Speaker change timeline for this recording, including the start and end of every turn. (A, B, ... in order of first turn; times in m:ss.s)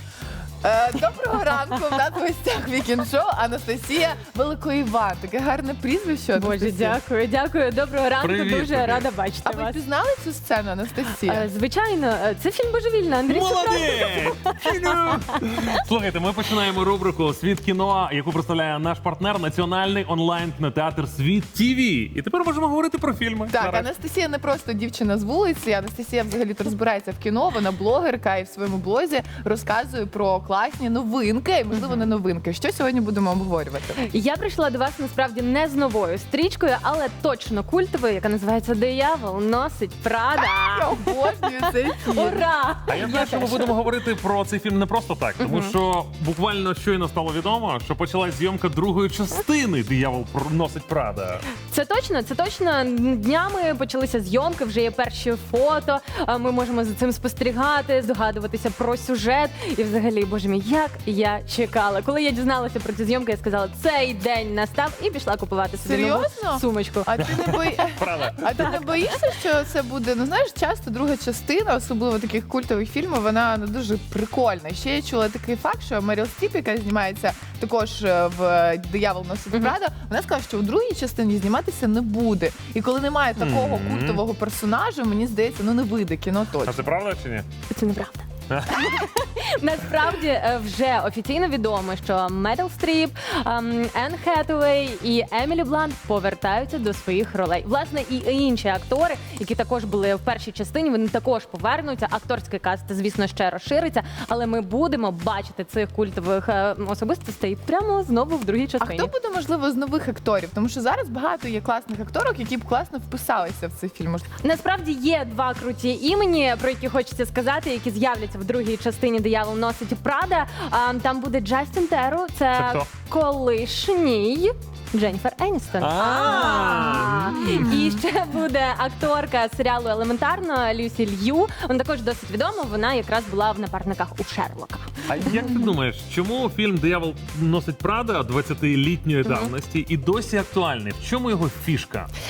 0:00.6-0:07.0 A
0:06.3-0:09.8 B
0:08.2-0:09.1 C
0:09.4-0:11.5 A
0:11.2-0:14.7 B
0:13.3-0:23.9 C
0:23.5-0:34.1 A
0:31.7-0:32.1 B
0:34.1-0:41.5 B
0:40.7-0:42.5 A
0:42.0-0:43.8 B
0:42.9-0:51.4 C
0:45.4-0:45.7 B
0:51.7-1:07.4 B
1:05.8-1:26.8 A
1:07.2-1:08.9 C
1:23.4-1:24.2 C
1:26.6-1:27.4 C
1:27.7-1:49.1 B
1:28.5-1:29.0 C
1:48.8-1:54.3 A
1:54.4-2:15.5 B
2:02.6-2:02.8 C
2:05.8-2:07.8 C
2:15.1-2:22.1 C
2:19.2-2:19.5 B